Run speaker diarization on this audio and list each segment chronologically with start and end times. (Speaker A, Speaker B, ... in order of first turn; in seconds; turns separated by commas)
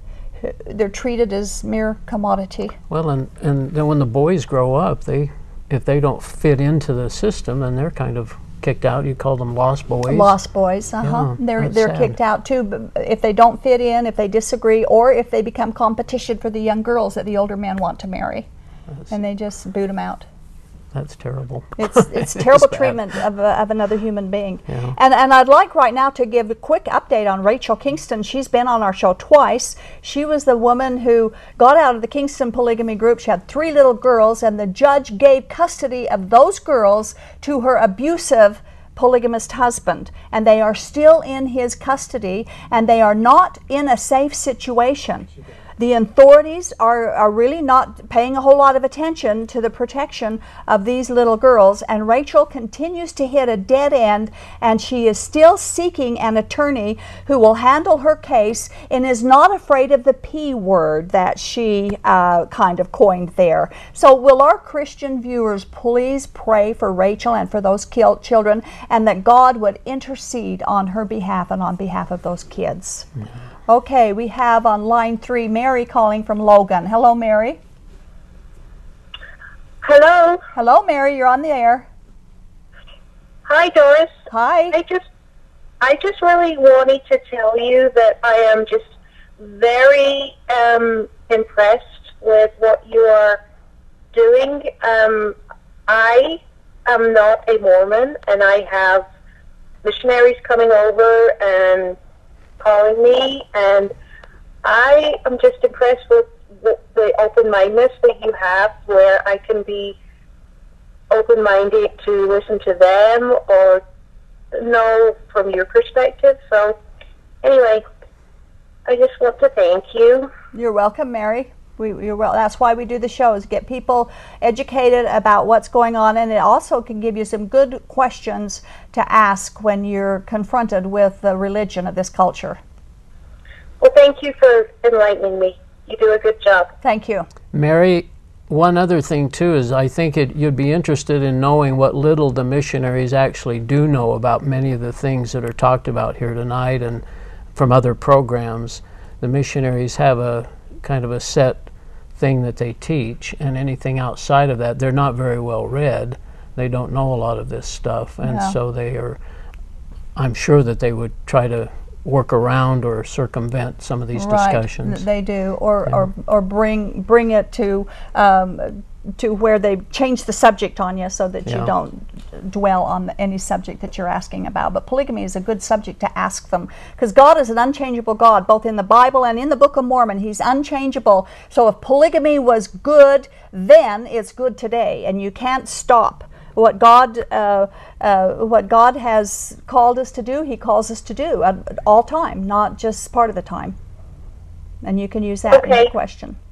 Speaker A: 0.4-2.8, Speaker B: 2.9-10.3, Speaker A: 10.1-18.5, Speaker B: 11.0-12.2, Speaker A: 19.1-20.2, Speaker B: 20.9-23.0, Speaker A: 21.8-45.3, Speaker B: 24.7-25.0, Speaker A: 45.8-73.1, Speaker A: 73.7-77.6, Speaker C: 79.8-80.4, Speaker A: 80.5-81.9, Speaker C: 83.5-84.1, Speaker A: 84.3-84.8, Speaker C: 84.7-85.0, Speaker C: 85.8-93.4, Speaker C: 94.1-99.1, Speaker C: 99.8-102.0, Speaker C: 102.6-103.9, Speaker C: 104.6-110.0, Speaker C: 111.1-113.8, Speaker C: 114.5-116.8, Speaker C: 117.4-117.9, Speaker C: 118.9-120.3, Speaker A: 120.5-132.6, Speaker C: 133.8-136.7, Speaker A: 136.8-137.3, Speaker B: 137.5-147.0, Speaker B: 147.6-159.2, Speaker A: 158.2-158.6, Speaker B: 160.2-165.1, Speaker A: 164.2-193.8, Speaker B: 171.5-171.7, Speaker A: 194.8-196.4, Speaker C: 195.5-195.9